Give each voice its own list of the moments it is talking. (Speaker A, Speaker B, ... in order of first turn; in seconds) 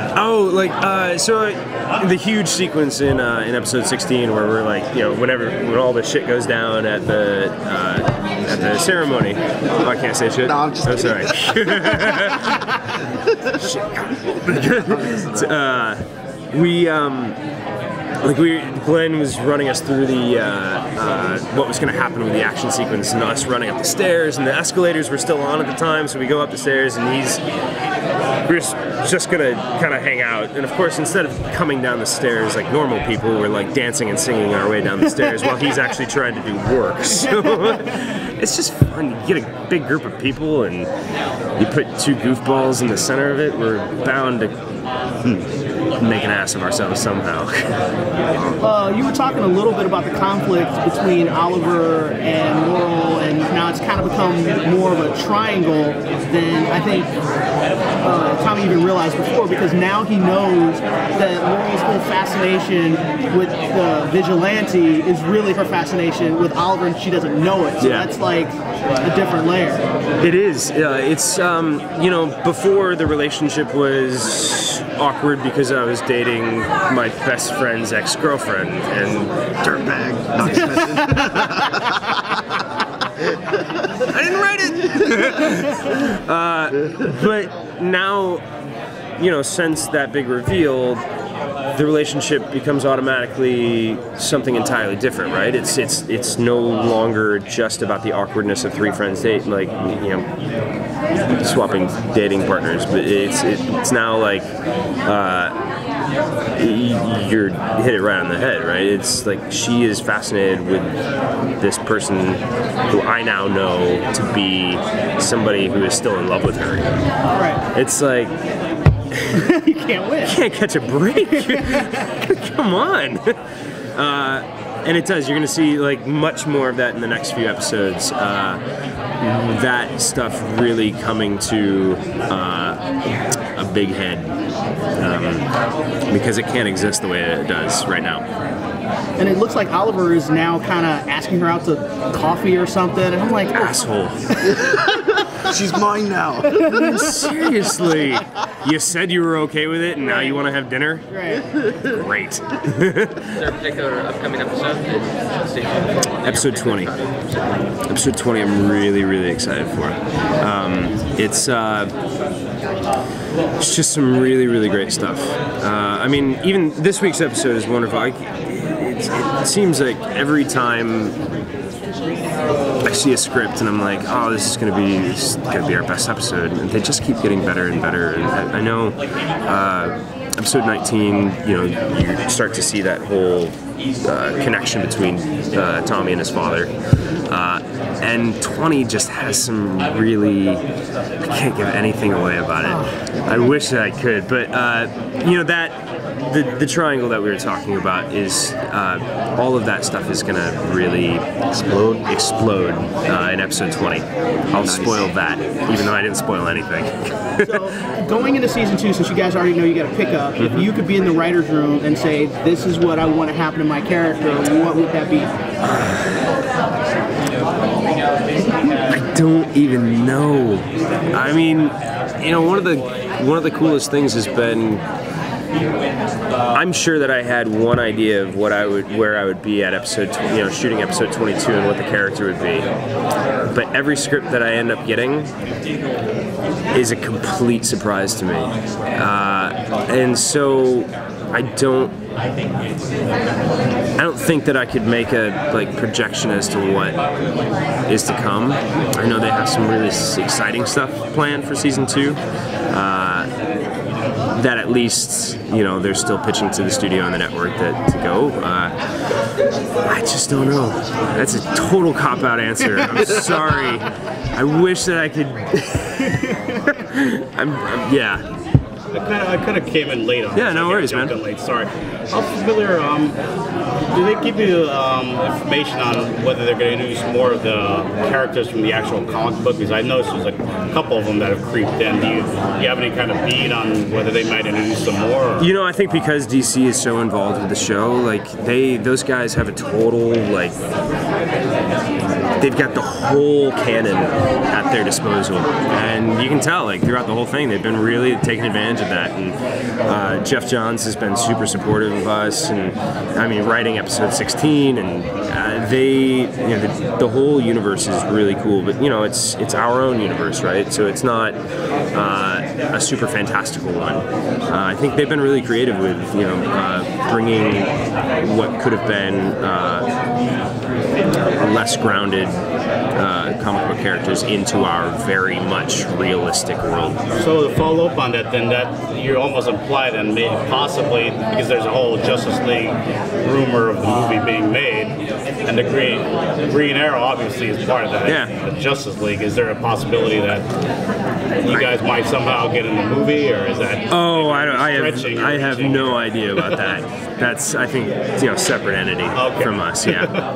Speaker A: 0.1-12.7, 13.4-16.0, 16.5-17.4, 18.2-27.4, 28.4-40.9, 41.6-44.5, 46.0-47.8, 67.8-68.1, 70.2-80.7, 84.0-88.4, 89.2-91.0, 91.7-100.3, 101.4-104.5, 105.0-105.6, 106.6-110.9, 111.6-117.0, 117.7-118.3, 119.1-119.4, 120.2-123.2, 123.9-128.6, 129.2-132.8, 133.5-134.3, 135.0-135.5, 136.1-138.2, 143.5-144.2, 146.7-151.1, 151.7-153.4, 156.2-156.9, 157.8-161.9, 163.6-171.2, 172.8-186.7, 187.3-190.6, 191.2-201.2, 202.1-207.5, 210.4-210.6, 215.6-216.2, 218.9-224.8, 226.5-232.7, 233.5-235.3, 236.7-241.9, 244.0-247.0, 247.9-252.2, 252.7-253.3, 254.3-258.7, 259.8-268.2, 270.3-271.1, 285.4-290.6, 292.4-311.4, 311.9-319.9, 321.4-322.4, 322.9-327.0, 338.0-338.3, 343.9-350.1
Speaker B: 8.5-8.9, 10.4-13.4, 14.7-15.5, 79.7-82.0, 144.5-146.8, 201.5-202.1, 204.5-205.1
Speaker C: 37.3-37.8, 48.6-57.1, 58.0-69.8, 117.3-117.7, 119.3-120.4, 121.3-122.0, 139.2-145.4, 146.6-147.3, 150.0-150.5, 151.1-151.4, 207.4-215.3, 266.0-266.6
Speaker D: 153.3-157.0
Speaker E: 268.9-273.2, 273.9-285.5, 327.1-340.5, 341.4-346.5, 349.1-350.2